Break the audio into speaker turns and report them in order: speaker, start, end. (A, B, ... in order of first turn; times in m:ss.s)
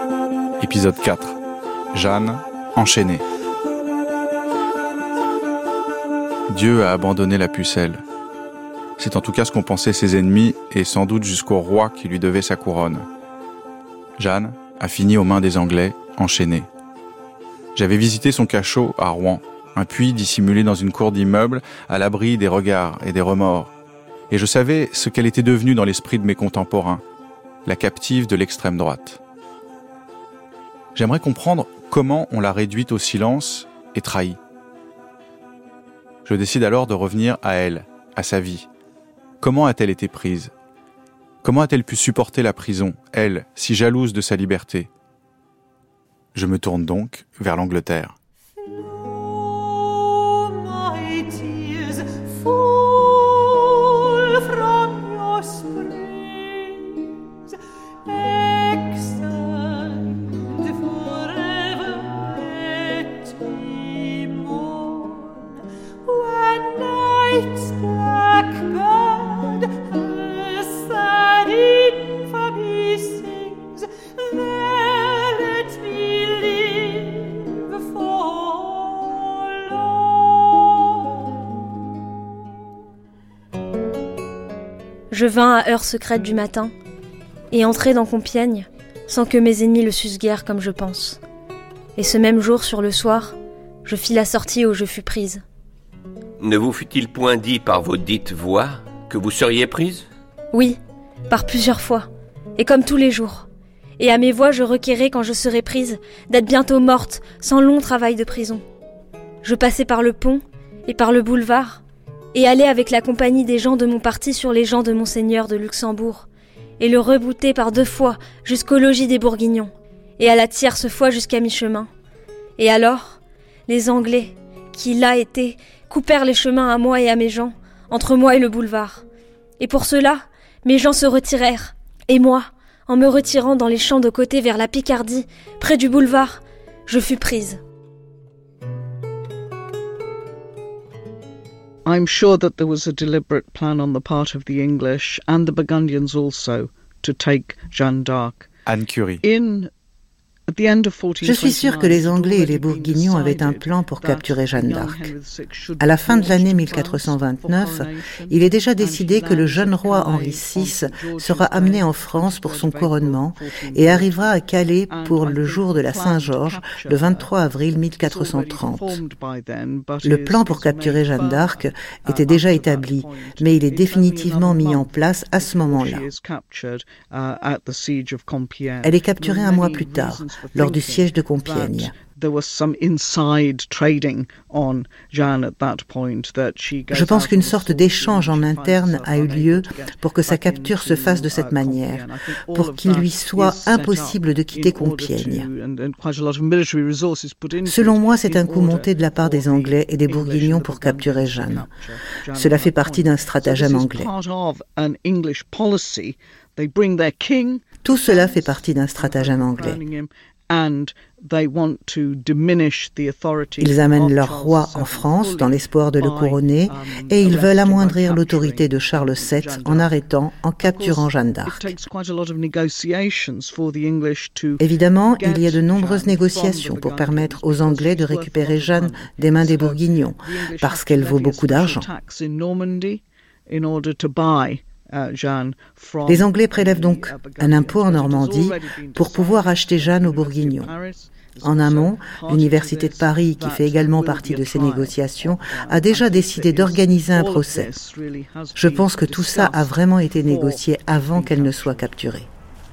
0:00.6-0:01.4 A
0:01.9-0:03.2 A
0:06.5-0:08.0 A
0:09.0-0:13.0 A
0:14.2-0:16.7 A
0:17.7-0:23.7 A
0:24.3-0:27.0 A
0:27.6-0:29.2 A
0:30.9-0:34.4 A
0:36.2-0:38.7 A
0:39.4-0:40.5 A
0:41.4-0:44.9 A
0:46.3-0:48.2 A
1:25.1-1:26.7 B
1:27.5-1:31.2 B
1:32.0-1:35.4 B
1:36.4-1:40.1 C
1:40.5-1:40.8 B
1:41.3-1:43.4 B
1:44.0-1:48.6 B
1:49.4-1:51.8 B
1:52.3-1:56.2 B
1:56.8-2:01.9 B
2:02.6-2:09.0 B
2:09.6-2:17.6 B
2:21.8-2:28.5 D
2:28.6-2:29.2 A
2:29.2-2:29.7 D
2:30.5-2:47.3 D
2:31.2-2:35.1 E
2:35.8-2:49.0 E
2:48.0-4:11.9 D
2:50.0-2:56.0 E
2:58.8-3:01.9 E
3:06.9-3:15.5 E
3:17.6-3:21.7 E
3:22.3-3:24.1 E
3:27.8-3:29.8 E
3:33.6-3:41.7 E
3:44.6-3:51.9 E
3:56.0-4:00.7 E
4:01.4-4:07.7 E
4:08.6-4:12.3 E